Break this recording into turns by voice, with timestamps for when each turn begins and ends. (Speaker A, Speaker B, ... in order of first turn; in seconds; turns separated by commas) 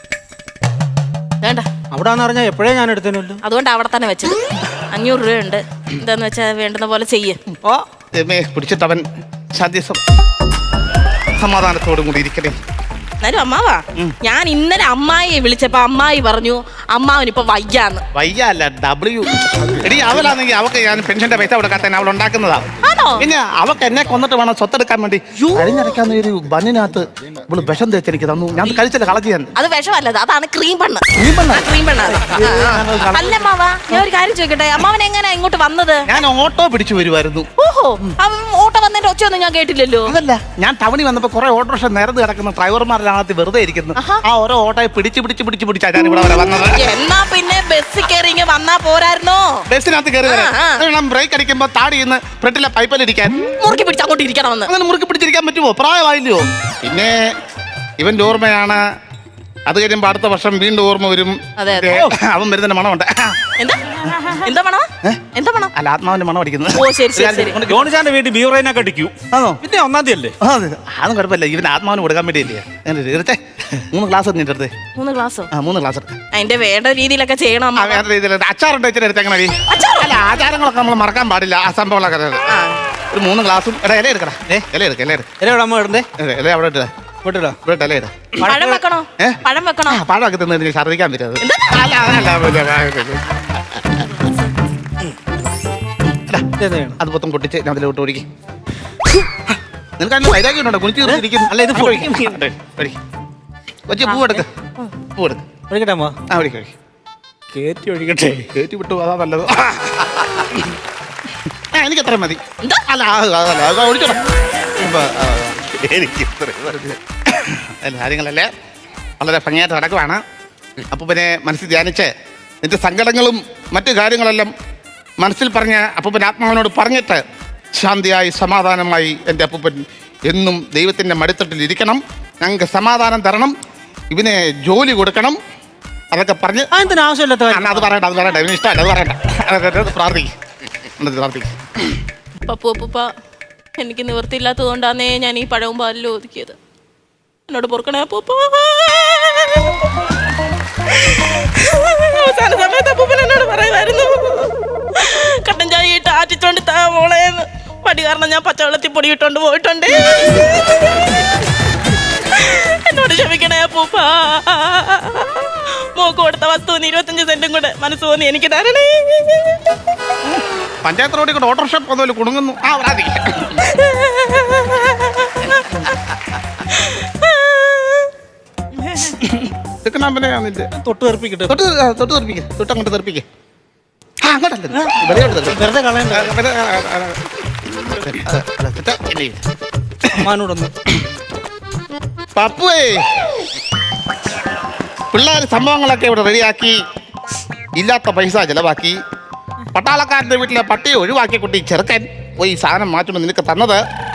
Speaker A: 1.4-1.7, Speaker B: 1.9-3.4, Speaker A: 3.4-7.4, Speaker C: 7.5-10.0, Speaker C: 11.3-12.5, Speaker A: 13.2-18.0, Speaker C: 18.1-22.6, Speaker A: 22.8-23.2, Speaker C: 23.2-29.5, Speaker A: 25.4-25.8, Speaker A: 29.6-36.1, Speaker C: 31.1-31.7, Speaker C: 32.3-34.0, Speaker C: 36.1-37.5, Speaker A: 37.6-40.1, Speaker C: 40.0-46.8, Speaker A: 43.9-44.2, Speaker A: 46.7-49.6, Speaker C: 49.7-53.4, Speaker A: 50.2-50.8, Speaker A: 53.4-54.7, Speaker C: 54.6-57.3, Speaker C: 58.0-58.8, Speaker C: 59.7-63.4, Speaker A: 61.6-61.9, Speaker A: 63.6-65.7, Speaker C: 65.7-67.9, Speaker A: 66.7-67.6, Speaker B: 67.6-70.3, Speaker C: 69.3-69.6, Speaker C: 70.4-74.7, Speaker A: 74.9-75.5, Speaker C: 75.5-76.1, Speaker A: 76.3-78.0, Speaker C: 77.8-82.5, Speaker A: 79.7-80.2, Speaker A: 82.5-82.8, Speaker C: 83.1-85.3, Speaker B: 85.4-86.0, Speaker C: 86.2-86.9, Speaker B: 87.2-87.6, Speaker C: 87.6-88.5, Speaker B: 88.3-88.8, Speaker A: 88.5-90.0, Speaker C: 89.2-93.2, Speaker A: 91.4-91.9, Speaker C: 96.1-96.4, Speaker B: 96.6-97.0, Speaker C: 97.0-98.2, Speaker C: 99.5-103.0, Speaker B: 101.0-102.5, Speaker C: 103.9-104.5, Speaker A: 104.0-104.9, Speaker C: 105.1-105.4, Speaker B: 105.7-106.2, Speaker C: 106.3-106.7, Speaker B: 107.5-108.5, Speaker C: 108.5-110.7, Speaker C: 111.7-114.2, Speaker C: 114.8-118.5, Speaker C: 119.2-120.2, Speaker C: 120.9-122.1, Speaker C: 122.6-124.5, Speaker C: 125.2-127.2, Speaker C: 127.8-133.5, Speaker C: 134.1-135.4, Speaker C: 136.1-136.7, Speaker B: 136.7-137.9, Speaker C: 137.5-140.3, Speaker C: 141.0-142.0, Speaker A: 142.4-143.1, Speaker A: 143.8-146.6, Speaker A: 147.5-149.9, Speaker A: 150.9-161.2, Speaker A: 162.3-169.6, Speaker C: 170.2-173.7, Speaker A: 173.6-176.0, Speaker A: 176.7-178.1, Speaker C: 179.2-180.7, Speaker B: 180.7-181.6, Speaker C: 181.5-183.2, Speaker C: 184.2-189.4, Speaker B: 184.7-186.3, Speaker B: 190.1-190.7, Speaker C: 192.3-193.3, Speaker C: 195.1-196.8, Speaker C: 197.8-199.0, Speaker C: 199.7-203.8